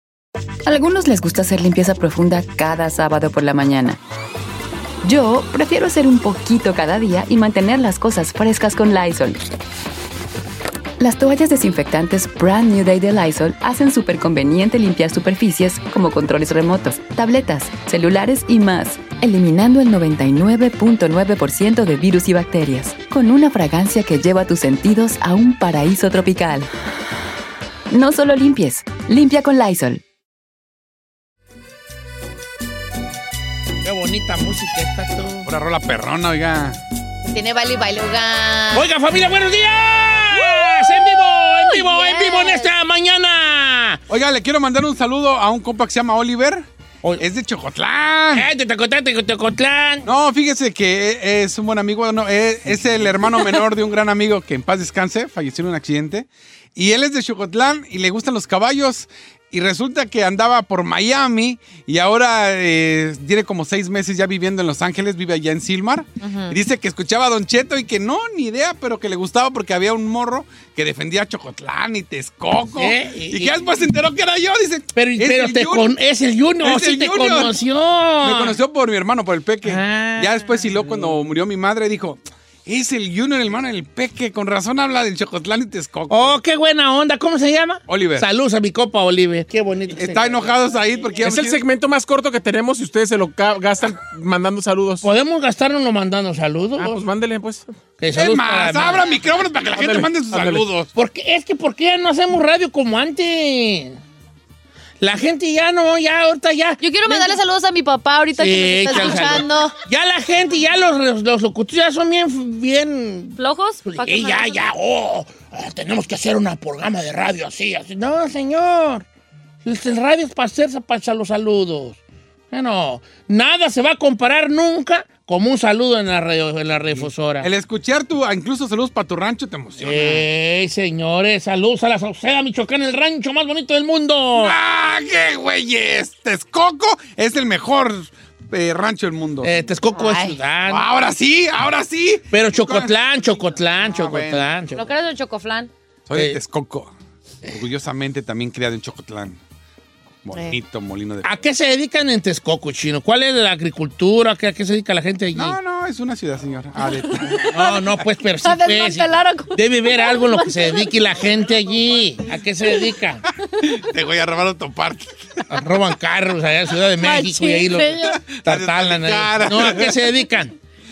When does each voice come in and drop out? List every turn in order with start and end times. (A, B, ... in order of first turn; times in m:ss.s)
0:00.7-0:04.0 A
0:05.0-0:09.4 A
0:11.0-0:26.7 A
0:27.9-0:30.0 A
0:33.8-0:35.5 B
0:35.4-0:36.8 C
0:37.3-0:38.9 D
0:38.7-0:44.0 B
0:40.5-0:42.7 D
0:44.1-0:46.6 C
0:47.2-0:48.5 C
0:48.3-0:50.1 B
0:50.0-1:15.9 C
1:06.2-1:06.6 D
1:12.7-1:13.6 B
1:14.9-1:18.6 B
1:16.6-1:17.6 C
1:18.2-1:26.3 C
1:19.6-1:20.8 B
1:26.1-1:30.5 B
1:27.9-1:28.3 C
1:29.9-1:31.6 C
1:31.2-1:35.1 E
1:35.0-1:37.0 B
1:36.8-1:37.7 E
1:38.0-1:39.1 B
1:38.1-1:40.9 C
1:39.7-1:40.6 E
1:40.9-1:44.0 B
1:45.0-1:47.4 B
1:46.8-1:49.8 D
1:48.3-1:59.1 B
1:53.4-1:54.6 D
1:59.6-2:02.0 B
2:02.5-2:07.5 B
2:07.0-2:10.2 C
2:09.8-2:14.6 B
2:14.4-2:19.6 C
2:19.4-2:20.9 B
2:19.9-2:20.4 D
2:20.7-2:22.9 C
2:22.3-2:24.9 B
2:23.8-2:24.5 C
2:24.7-2:25.7 D
2:26.1-2:26.9 C
2:27.4-2:29.4 C
2:30.2-2:31.3 C
2:31.2-2:35.6 B
2:35.3-2:37.5 C
2:36.8-2:37.8 D
2:37.5-2:43.2 B
2:38.4-2:40.9 D
2:43.6-2:45.4 C
2:45.5-2:50.5 B
2:47.0-2:48.2 D
2:48.3-2:50.1 C